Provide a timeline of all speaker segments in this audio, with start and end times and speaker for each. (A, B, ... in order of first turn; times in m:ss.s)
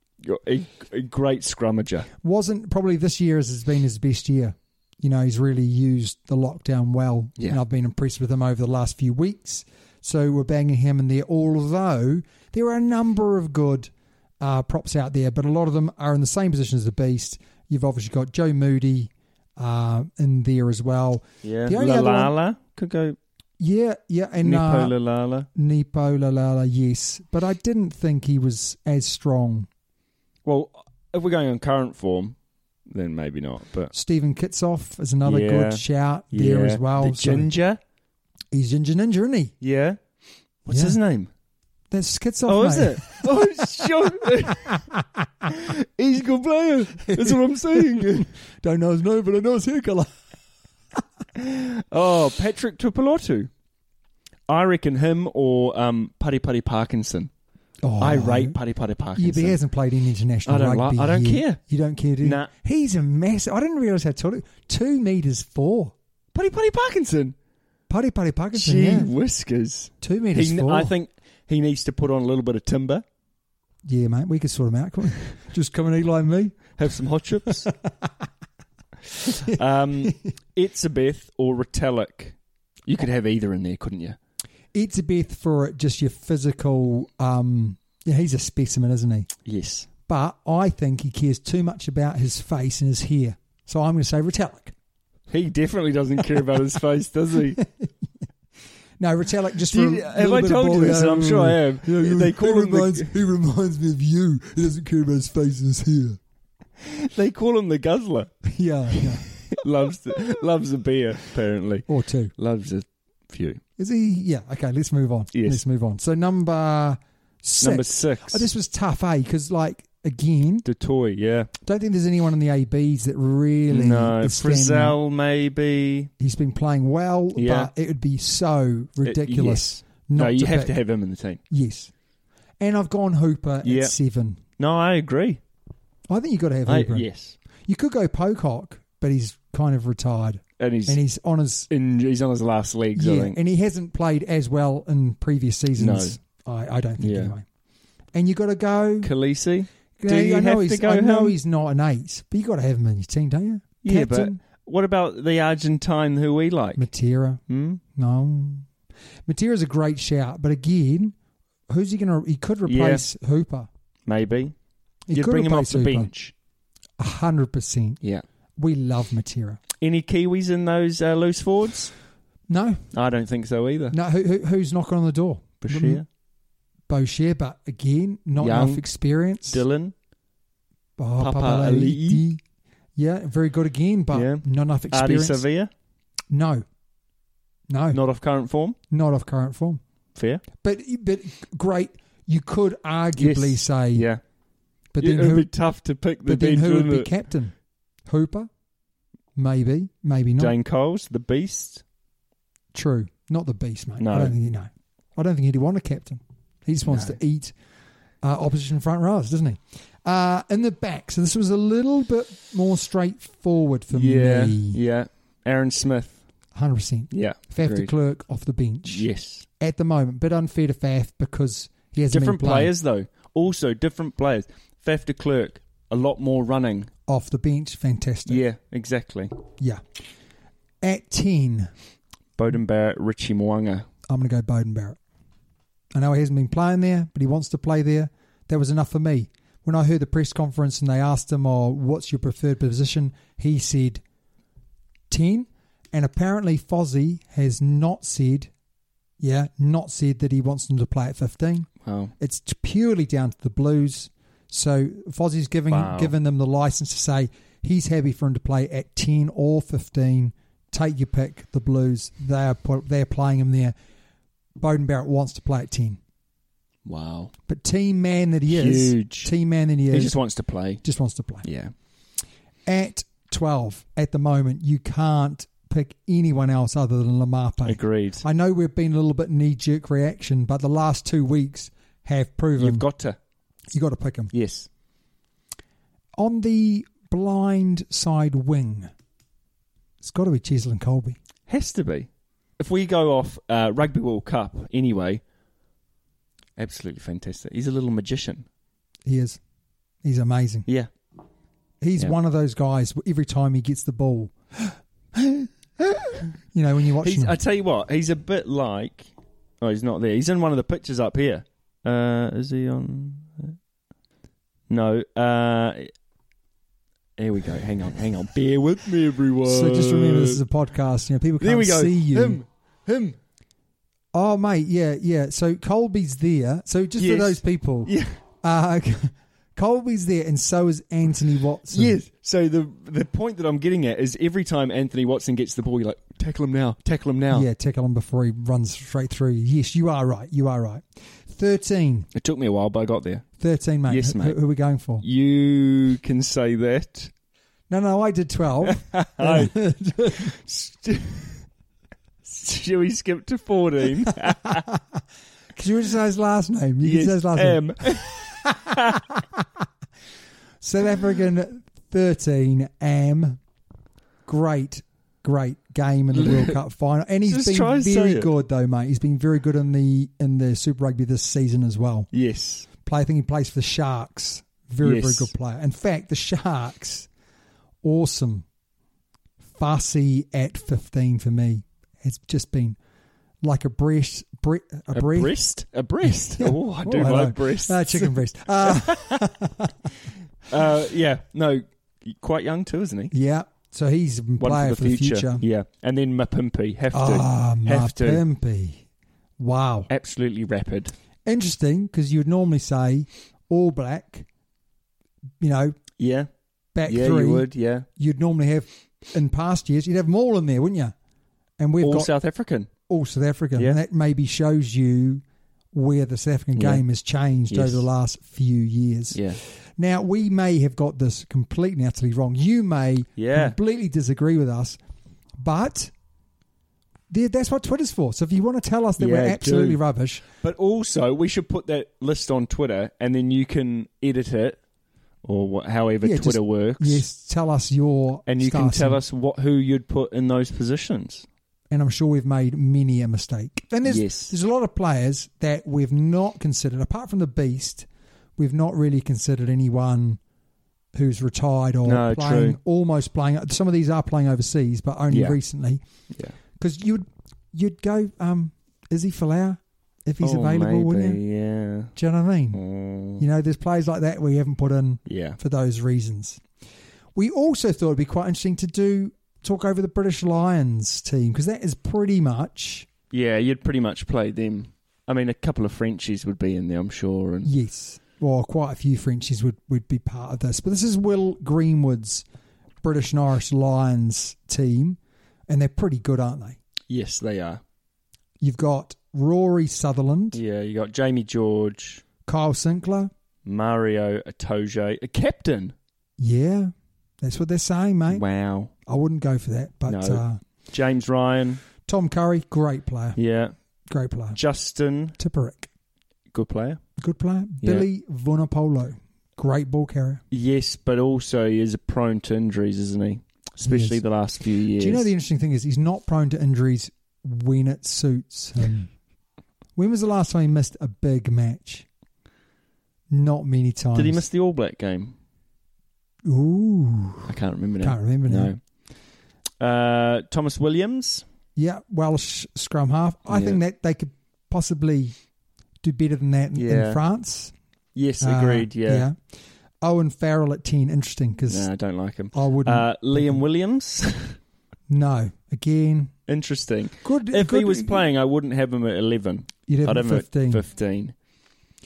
0:00.2-0:02.1 A
0:02.2-0:22.3 B
0:21.4-0:23.2 A
0:23.6-0:24.9 B
0:24.4-0:25.5 A
0:25.5-0:29.7 B
0:30.4-0:32.4 A
0:32.9-0:33.9 A
0:33.9-0:37.5 B
0:35.2-0:37.8 A
0:38.5-0:39.5 B
0:39.6-0:40.0 A
0:40.6-0:41.3 A
0:40.7-0:41.0 B
0:41.9-0:43.4 B
0:42.5-0:44.8 A
0:44.8-0:45.0 B
0:45.5-0:48.3 A
0:47.1-0:50.2 B
0:51.4-0:53.5 A
0:54.5-0:57.3 A
0:57.8-0:58.6 B
0:58.0-0:59.6 A
0:59.2-1:05.9 B
1:00.4-1:01.6 A
1:02.2-1:02.5 A
1:06.3-1:07.3 A
1:07.9-1:09.1 B
1:08.5-1:13.0 A
1:10.0-1:10.9 B
1:13.8-1:16.7 B
1:16.8-1:17.7 A
1:19.4-1:22.4 A
1:19.4-1:20.2 B
1:22.9-1:24.2 A
1:24.7-1:29.3 B
1:29.4-1:29.9 A
1:30.0-1:34.7 B
1:35.3-1:37.6 A
1:37.6-1:37.9 B
1:39.0-1:46.2 B
1:39.7-1:43.1 A
1:46.8-1:48.3 A
1:48.4-1:49.2 B
1:48.9-1:51.8 A
1:51.9-1:52.3 B
1:52.4-1:53.6 A
1:53.8-2:00.6 B
1:55.3-1:55.6 A
1:57.6-1:58.5 A
2:00.6-2:01.5 A
2:01.6-2:05.0 B
2:03.7-2:06.1 A
2:06.2-2:10.8 B
2:07.3-2:07.7 A
2:09.0-2:11.4 A
2:11.5-2:11.9 B
2:12.6-2:14.4 B
2:13.6-2:13.9 A
2:14.6-2:15.4 A
2:16.1-2:17.1 B
2:16.6-2:17.4 A
2:17.6-2:21.7 B
2:20.6-2:21.0 A
2:21.7-2:23.4 A
2:22.9-2:27.4 B
2:25.8-2:26.2 A
2:27.0-2:27.3 A
2:28.1-2:29.1 B
2:29.0-2:31.4 A
2:30.0-2:34.4 B
2:33.8-2:36.8 A
2:36.8-2:37.4 B
2:37.5-2:37.8 A
2:37.9-2:38.7 B
2:39.2-2:41.1 B
2:41.7-2:43.7 B
2:42.6-2:43.0 A
2:44.1-2:44.5 A
2:45.1-2:46.1 B
2:45.1-2:46.3 A
2:47.0-2:48.0 B
2:48.6-2:49.6 B
2:49.8-2:51.9 A
2:52.5-2:52.8 B
2:52.9-2:54.0 A
2:53.9-2:56.0 B
2:55.6-2:56.0 A
2:56.9-2:59.6 B
2:58.4-2:58.8 A
2:59.5-2:59.9 A
3:01.0-3:02.4 B
3:01.2-3:02.2 A
3:03.0-3:05.4 B
3:04.1-3:05.7 A
3:06.3-3:06.6 B
3:07.7-3:08.0 B
3:07.9-3:08.8 A
3:08.9-3:09.8 B
3:10.1-3:10.4 A
3:10.6-3:14.1 B
3:13.2-3:14.2 A
3:14.9-3:15.5 B
3:15.0-3:17.1 A
3:16.2-3:17.5 B
3:18.0-3:18.5 B
3:19.3-3:20.6 B
3:20.4-3:21.8 A
3:22.7-3:27.5 B
3:24.0-3:24.4 A
3:26.9-3:27.2 A
3:28.2-3:34.8 B
3:33.9-3:36.2 A
3:36.5-3:39.1 B
3:37.1-3:37.9 A
3:38.8-3:39.4 A
3:39.6-3:42.7 B
3:42.1-3:46.9 A
3:47.1-3:48.4 B
3:48.2-3:49.3 A
3:49.6-3:49.8 B
3:50.8-3:51.7 B
3:52.4-3:53.9 A
3:54.1-3:55.0 B
3:55.9-4:04.0 B
4:05.1-4:08.5 B
4:09.2-4:23.7 B
4:11.8-4:12.1 A
4:15.7-4:16.1 A
4:24.6-4:26.0 B
4:26.8-4:27.3 A
4:27.5-4:30.2 B
4:28.5-4:29.3 A
4:29.9-4:30.8 A
4:30.8-4:31.4 B
4:31.4-4:31.7 A
4:32.6-4:42.8 B
4:37.6-4:38.2 A
4:42.6-4:43.2 A
4:43.7-4:44.3 B
4:44.3-4:44.7 A
4:46.2-4:48.9 B
4:50.0-4:51.2 B
4:51.5-4:55.2 A
4:56.6-4:58.4 A
4:59.0-4:59.4 B
5:00.0-5:00.7 B
5:01.8-5:05.5 B
5:06.5-5:07.4 B
5:07.0-5:09.1 A
5:09.6-5:13.6 A
5:14.7-5:15.9 A
5:17.2-5:20.4 A
5:19.4-5:22.4 B
5:21.4-5:23.2 A
5:24.1-5:32.0 B
5:27.0-5:28.1 A
5:31.7-5:37.5 A
5:37.3-5:42.1 B
5:42.1-5:43.2 A
5:43.4-5:45.0 B
5:43.9-5:44.4 A
5:45.0-5:47.1 A
5:47.7-5:50.3 B
5:48.7-5:49.5 A
5:50.2-5:51.4 A
5:52.2-5:54.6 A
5:54.5-5:55.0 B
5:55.5-5:59.4 B
5:56.8-5:59.0 A
6:00.6-6:03.4 B
6:04.2-6:12.1 B
6:06.1-6:06.6 A
6:07.3-6:08.3 A
6:12.1-6:12.7 A
6:12.8-6:17.1 B
6:14.8-6:15.3 A
6:17.8-6:18.4 B
6:19.5-6:22.8 B
6:23.4-6:25.3 B
6:24.9-6:29.2 A
6:26.0-6:29.7 B
6:30.5-6:33.1 A
6:33.1-6:35.4 B
6:34.4-6:38.2 A
6:36.9-6:38.8 B
6:39.4-6:39.9 B
6:39.9-6:40.9 A
6:41.2-6:44.3 B
6:45.4-6:45.8 B
6:46.0-6:46.3 A
6:46.7-6:50.9 B
6:46.8-6:47.8 A
6:51.6-6:52.1 B
6:51.8-6:52.7 A
6:52.9-7:04.8 B
6:56.5-6:56.8 A
6:57.5-6:57.8 A
6:59.1-6:59.4 A
7:03.2-7:03.6 A
7:05.4-7:05.9 B
7:07.1-7:10.2 B
7:09.0-7:09.8 A
7:10.4-7:14.6 A
7:15.2-7:17.0 A
7:16.0-7:19.0 B
7:18.3-7:21.2 A
7:21.7-7:30.2 B
7:23.8-7:24.3 A
7:30.9-7:35.8 B
7:31.8-7:32.6 A
7:35.1-7:35.4 A
7:36.6-7:41.2 B
7:40.2-7:41.9 A
7:42.0-7:42.6 B
7:42.5-7:43.2 A
7:43.2-7:46.4 B
7:45.0-7:45.4 A
7:47.1-7:52.9 B
7:53.1-7:57.5 A
7:57.4-8:02.2 B
8:02.8-8:06.6 B
8:06.9-8:07.6 A
8:08.4-8:10.4 B
8:10.3-8:12.0 A
8:12.2-8:13.1 B
8:13.4-8:15.7 A
8:16.2-8:18.2 B
8:18.1-8:18.7 A
8:18.8-8:20.4 B
8:19.9-8:21.6 A
8:21.9-8:23.2 B
8:23.2-8:23.5 A
8:23.9-8:24.4 B
8:24.3-8:25.2 A
8:25.2-8:25.7 B
8:26.3-8:26.8 A
8:27.0-8:30.2 B
8:27.6-8:27.9 A
8:30.3-8:35.1 A
8:33.6-8:34.0 B
8:34.8-8:38.9 B
8:39.8-8:41.8 B
8:43.1-8:44.2 B
8:43.9-8:45.2 A
8:46.2-8:48.5 B
8:47.3-8:48.6 A
8:49.6-8:51.2 A
8:51.6-8:55.1 B
8:53.3-8:53.6 A
8:55.8-8:57.5 B
8:56.5-8:57.0 A
8:57.9-8:59.1 A
8:58.2-8:59.2 B
8:59.8-9:01.7 B
9:01.5-9:04.4 A
9:02.3-9:03.4 B
9:04.9-9:06.1 B
9:06.3-9:11.1 A
9:07.0-9:08.0 B
9:09.7-9:10.6 B